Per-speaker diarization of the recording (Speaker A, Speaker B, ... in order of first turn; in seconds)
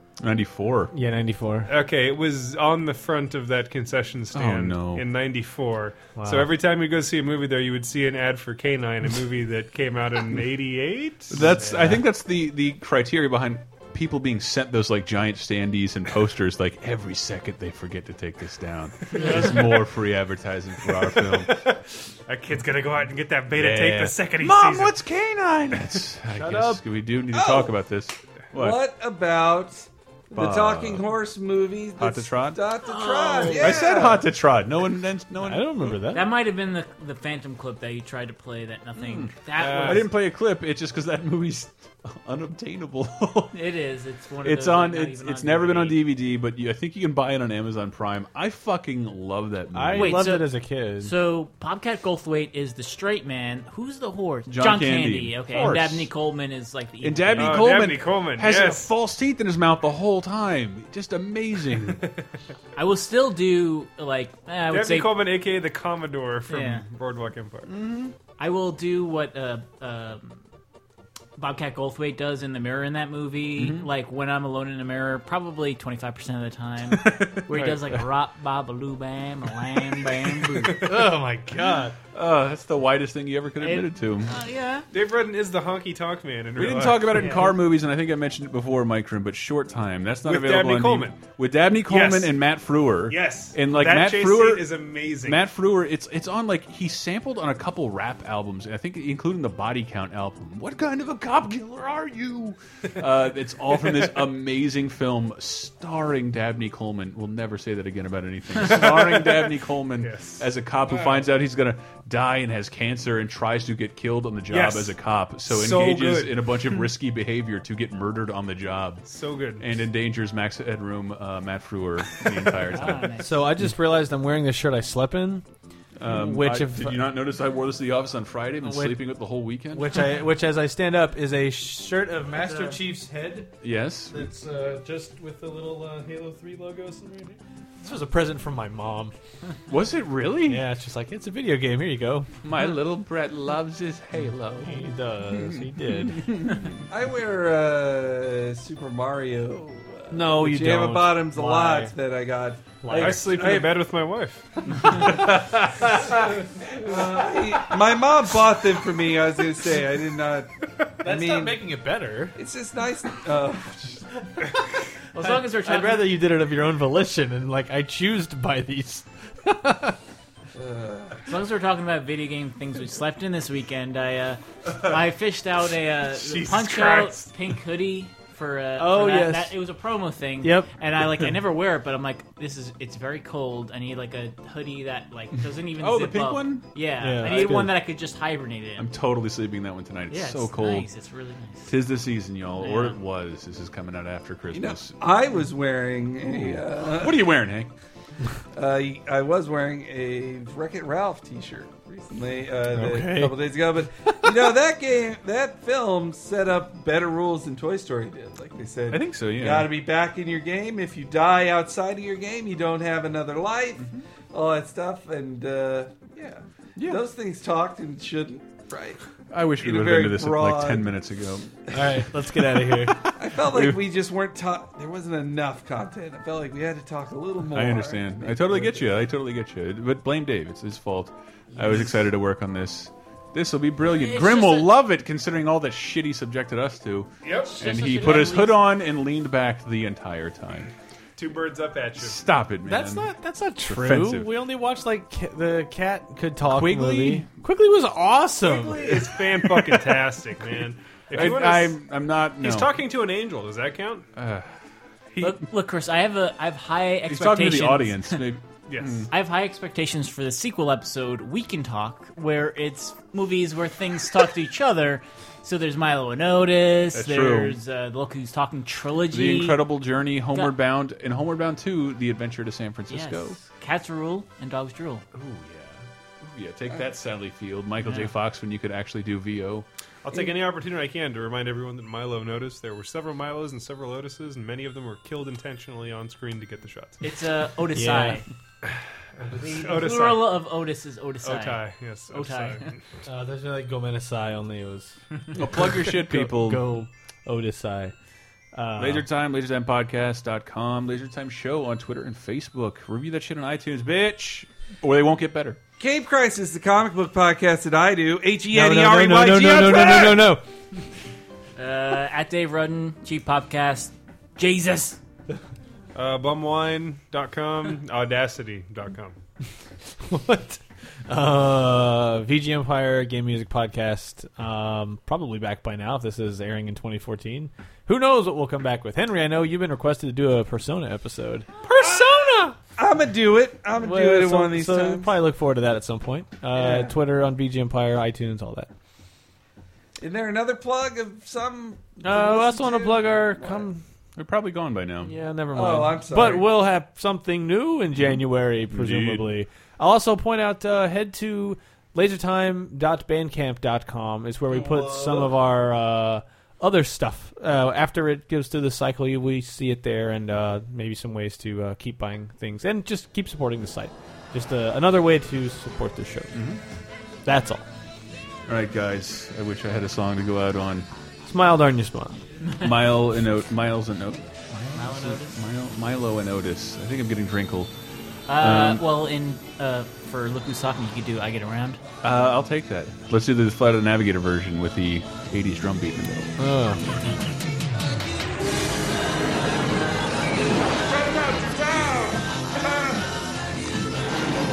Speaker A: 0.2-0.9, 4.3-5.0, 11.3-21.6, 23.5-28.8, 30.3-31.1, 32.0-32.6, 33.5-36.0, 39.0-43.6, 44.4-50.3, 54.5-56.1, 57.0-62.0, 67.7-68.1, 73.5-73.9, 76.9-77.9, 82.1-84.3, 86.5-119.0, 119.6-123.1, 126.0-130.1, 133.6-134.2, 139.7-140.7, 142.4-146.8, 176.3-177.1, 185.7-186.7, 187.2-187.6, 188.8-190.9, 191.7-195.0, 196.2-197.7, 208.9-209.7, 216.8-217.0, 219.3-222.0, 222.9-223.8, 227.5-240.7, 242.0-243.1, 243.6-244.3, 246.4-247.3, 249.6-249.9, 251.1-252.8, 254.2-254.5, 255.1-255.4, 257.1-259.1, 266.9-267.6, 269.1-273.4, 275.1-279.6, 295.3-296.7, 298.8-305.6, 344.1-345.1, 348.0-349.3, 366.3-366.6, 368.5-370.9, 372.6-377.7, 378.3-378.8, 382.0-386.3
Speaker B: 0.9-1.7, 6.2-6.5, 26.3-26.8, 33.1-33.5, 35.4-36.3, 49.7-51.1, 80.8-81.9, 123.2-125.4, 126.0-127.1, 128.6-129.1, 129.7-133.5, 134.1-139.1, 140.5-142.3, 144.6-146.3, 150.1-151.9, 152.8-153.5, 161.0-162.3, 165.2-170.0, 178.8-179.6, 180.4-180.7, 187.0-187.7, 202.7-203.4, 204.1-204.5, 221.7-223.0, 242.7-249.0, 287.7-288.2, 293.1-295.0, 295.5-297.9, 298.5-299.1, 308.5-310.4, 320.0-331.5, 333.8-338.7, 342.0-343.8, 345.0-366.4, 367.2-367.6, 371.2-372.2, 386.4-386.8
Speaker C: 1.7-11.7, 19.1-19.8, 21.1-25.0, 39.6-40.1, 57.4-58.9, 61.9-62.3, 64.7-67.7, 84.9-87.4, 90.2-91.2, 91.8-92.4, 93.1-95.4, 110.0-110.5, 114.5-116.4, 119.0-119.7, 152.9-154.4, 237.2-237.6, 241.2-242.2, 248.7-251.8, 252.3-254.1, 258.7-259.1, 280.0-287.0, 289.2-290.4, 291.2-292.8, 315.9-319.2, 331.7-332.5
Speaker D: 27.3-27.8, 28.5-34.3, 146.9-153.9, 154.7-161.6, 162.3-164.3, 170.5-171.2, 194.5-197.3, 198.5-219.0, 219.6-220.9, 223.1-229.0, 248.4-249.0, 305.8-310.3, 331.8-335.1, 336.5-337.0, 340.0-343.7, 345.5-346.5, 354.5-355.4, 390.9-392.9
Speaker E: 36.1-40.1, 43.5-46.0, 50.0-57.7, 62.8-65.1, 66.5-66.8, 68.4-70.4, 71.4-80.8, 83.6-84.8, 87.1-87.5, 122.7-123.5, 132.3-132.8, 165.1-166.2, 171.2-188.9, 190.1-191.7, 192.6-193.0, 233.8-234.7, 237.3-238.7, 255.2-258.2, 259.1-269.6, 272.9-275.0, 277.8-278.1, 287.0-288.3, 289.4-292.7, 311.6-315.0, 372.4-372.9, 374.6-375.4, 378.3-381.8